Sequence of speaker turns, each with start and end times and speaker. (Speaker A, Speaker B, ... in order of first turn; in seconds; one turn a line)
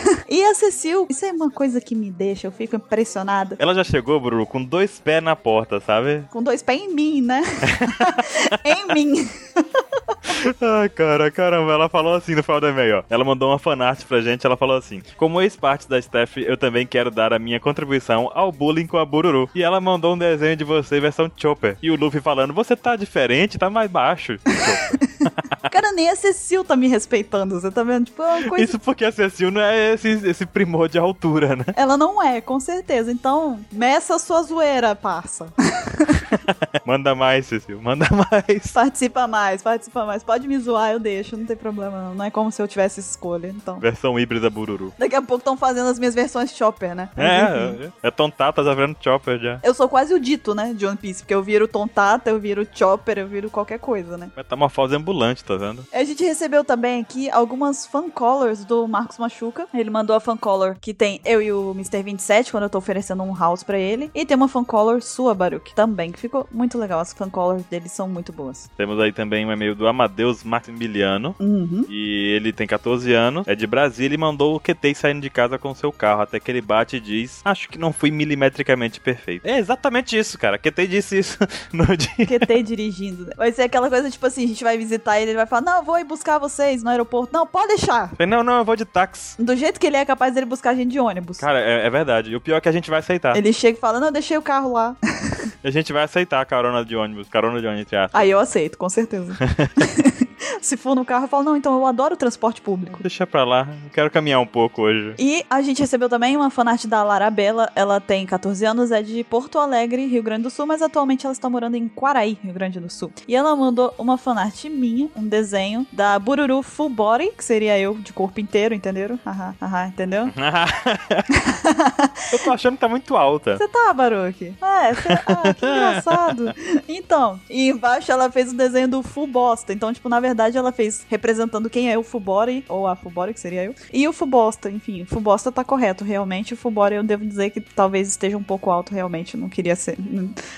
Speaker A: 0.2-3.6
Speaker B: 3.6-6.3
Speaker A: 6.3-10.1
Speaker B: 7.7-8.2
Speaker B: 10.3-25.5
Speaker A: 25.7-28.7
Speaker B: 28.5-31.7
Speaker A: 31.7-36.2
Speaker B: 36.3-38.7
Speaker A: 38.7-43.8
Speaker B: 43.8-44.9
Speaker A: 45.0-47.8
Speaker B: 47.2-49.6
Speaker A: 49.6-54.3
Speaker B: 54.4-55.9
Speaker A: 55.9-68.7
Speaker B: 68.8-82.4
Speaker A: 71.4-71.9
Speaker A: 82.2-88.2
Speaker B: 88.2-89.4
Speaker A: 89.4-91.4
Speaker B: 91.4-93.4
Speaker A: 93.3-95.0
Speaker B: 95.6-98.3
Speaker A: 98.1-103.0
Speaker B: 99.4-99.9
Speaker B: 103.0-105.2
Speaker A: 105.2-120.3
Speaker B: 120.3-121.3
Speaker A: 121.3-122.1
Speaker B: 122.3-123.6
Speaker A: 123.5-140.3
Speaker B: 125.0-126.5